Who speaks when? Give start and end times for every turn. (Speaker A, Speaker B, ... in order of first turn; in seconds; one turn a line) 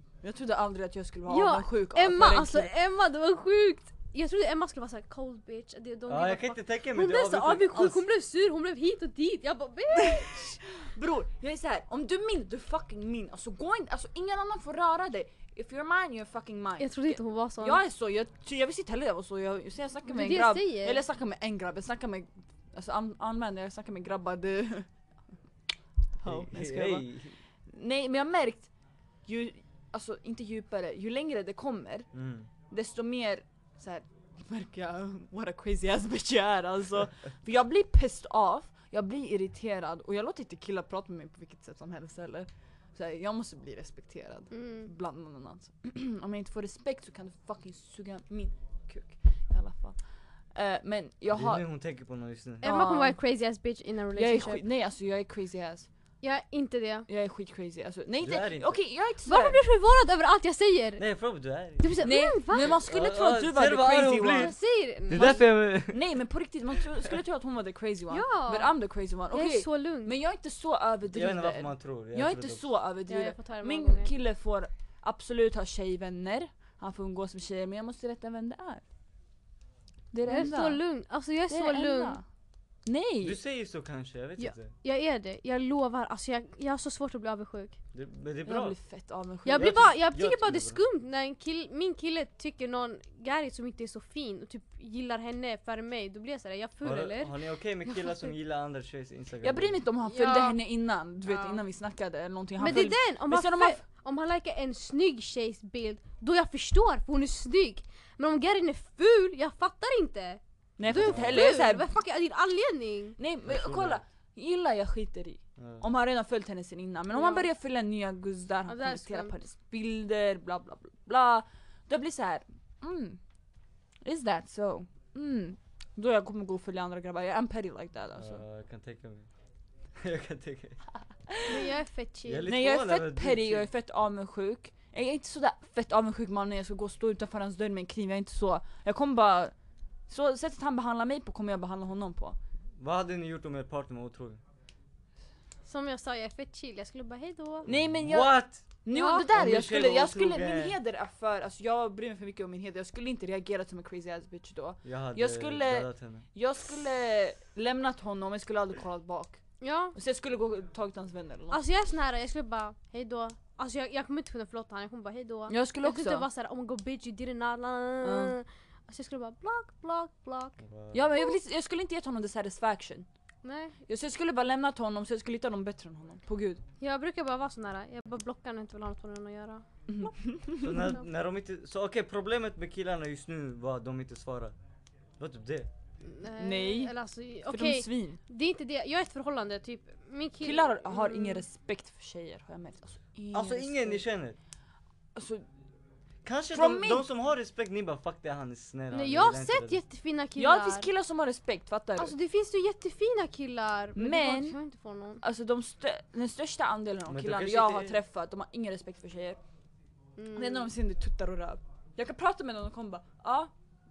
Speaker A: 0.2-2.7
Speaker B: 1.3-10.6
Speaker C: 6.1-8.0
Speaker A: 9.9-24.9
Speaker B: 16.8-17.8
Speaker B: 20.1-21.0
Speaker A: 26.2-27.1
Speaker C: 26.2-27.4
Speaker A: 27.6-28.7
Speaker A: 29.2-32.1
Speaker C: 32.1-32.5
Speaker A: 32.7-50.0
Speaker B: 44.5-44.9
Speaker A: 50.5-51.6
Speaker C: 51.3-52.6
Speaker B: 52.6-54.6
Speaker A: 52.6-53.2
Speaker A: 54.1-55.9
Speaker B: 56.2-57.1
Speaker A: 57.1-59.6
Speaker C: 58.2-58.8
Speaker B: 59.2-61.0
Speaker C: 61.0-61.9
Speaker B: 61.8-62.8
Speaker A: 62.0-64.5
Speaker C: 62.8-64.5
Speaker B: 64.3-65.4
Speaker C: 65.1-66.1
Speaker A: 65.1-78.8
Speaker B: 68.1-68.7
Speaker B: 69.3-70.1
Speaker C: 71.1-72.7
Speaker B: 73.1-74.1
Speaker A: 80.1-80.8
Speaker B: 80.3-82.2
Speaker A: 81.5-82.2
Speaker A: 82.9-83.4
Speaker C: 83.2-84.7
Speaker B: 84.4-87.8
Speaker C: 87.9-88.8
Speaker A: 88.5-89.8
Speaker B: 89.5-97.3
Speaker C: 89.5-90.8
Speaker C: 96.8-99.8
Speaker B: 97.9-98.3
Speaker A: 99.4-103.8
Speaker B: 100.0-100.6
Speaker B: 101.2-101.6
Speaker B: 102.6-113.2
Speaker A: 110.8-111.9
Speaker C: 110.9-111.5
Speaker A: 113.2-123.2
Speaker C: 113.4-114.0
Speaker C: 115.6-115.8
Speaker B: 117.1-117.5
Speaker B: 118.7-119.4
Speaker A: 124.0-128.4
Speaker C: 128.2-129.3
Speaker C: 130.0-130.8
Speaker A: 131.3-131.7
Speaker B: 131.5-132.5
Speaker C: 132.2-133.7
Speaker A: 132.4-139.5
Speaker A: 140.1-142.4
Speaker C: 142.8-144.4
Speaker B: 145.7-147.7
Speaker C: 147.6-148.7
Speaker A: 147.6-159.4
Speaker B: 148.9-149.3
Speaker C: 149.2-150.8
Speaker C: 154.8-156.2
Speaker B: 159.6-159.9
Speaker A: 159.9-161.6
Speaker B: 161.5-170.6
Speaker A: 165.5-166.2
Speaker A: 168.0-168.3
Speaker C: 170.6-171.1
Speaker A: 170.9-173.1
Speaker B: 173.4-173.8
Speaker A: 173.9-176.6
Speaker B: 176.8-180.1
Speaker A: 179.9-180.9
Speaker C: 180.6-184.5
Speaker C: 185.2-185.7
Speaker B: 186.1-191.4
Speaker A: 186.3-186.9
Speaker A: 187.5-188.2
Speaker A: 190.4-194.0
Speaker C: 193.3-194.4
Speaker A: 195.1-195.5
Speaker C: 196.2-199.8
Speaker A: 196.5-197.1
Speaker B: 198.9-200.9
Speaker A: 200.4-202.1
Speaker B: 202.0-205.2
Speaker A: 203.9-204.6
Speaker A: 205.2-209.4
Speaker C: 207.1-208.0
Speaker B: 210.2-210.7
Speaker A: 210.3-213.5